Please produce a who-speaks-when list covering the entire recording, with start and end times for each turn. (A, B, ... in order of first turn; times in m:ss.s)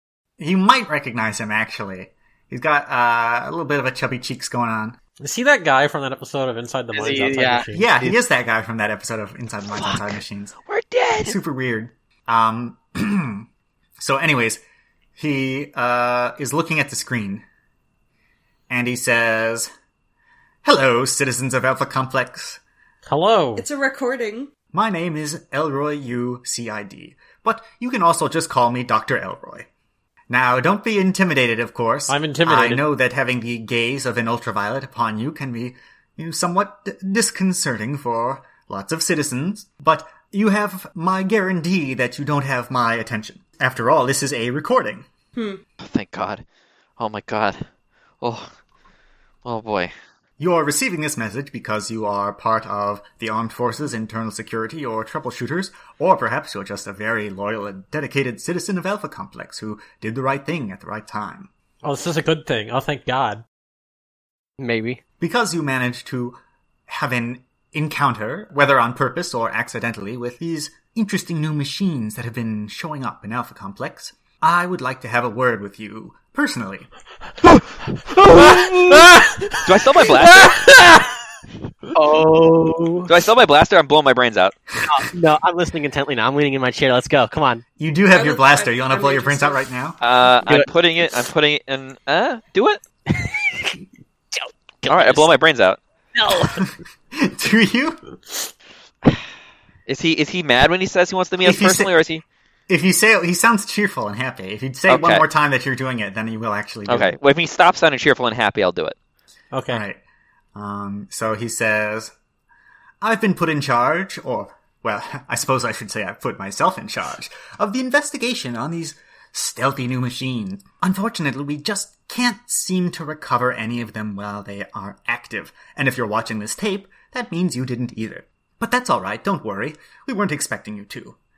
0:00.4-0:05.0 A
0:05.2-0:08.1 B
0:06.9-0:07.7 C
0:07.7-0:10.6 A
0:09.7-0:11.4 D
0:11.2-0:13.5 A
0:14.0-0:14.6 A
0:15.2-0:17.4 A
0:18.7-0:19.7 A
0:20.6-0:22.6 A
0:23.0-0:23.7 B
0:23.6-0:24.5 E
0:24.7-0:29.7 A
0:30.3-0:45.1 A
0:32.1-0:32.9 B
0:45.4-0:45.6 E
0:45.8-0:46.4 D
0:47.0-0:47.7 D
0:48.2-0:48.5 D
0:49.4-0:49.9 D
0:50.4-1:01.5 A
1:01.8-1:03.4 B
1:04.6-1:05.0 C
1:05.2-1:16.9 A
1:18.2-1:19.1 D
1:19.0-1:21.0 B
1:19.6-1:20.6 D
1:21.9-1:23.1 C
1:23.1-1:24.6 D
1:24.9-1:27.6 C
1:27.8-1:30.0 A
1:28.1-1:29.6 E
1:30.0-1:32.8 D
1:33.2-1:33.6 C
1:34.4-1:35.3 C
1:34.8-1:35.8 D
1:36.2-1:36.7 C
1:36.6-1:38.0 A
1:39.9-1:42.2 D
1:41.4-1:42.0 A
1:42.7-1:47.2 A
1:44.9-1:45.3 D
1:46.9-1:49.0 D
1:49.5-1:49.8 B
1:49.7-1:50.0 A
1:50.6-1:52.1 A
1:53.0-2:11.2 A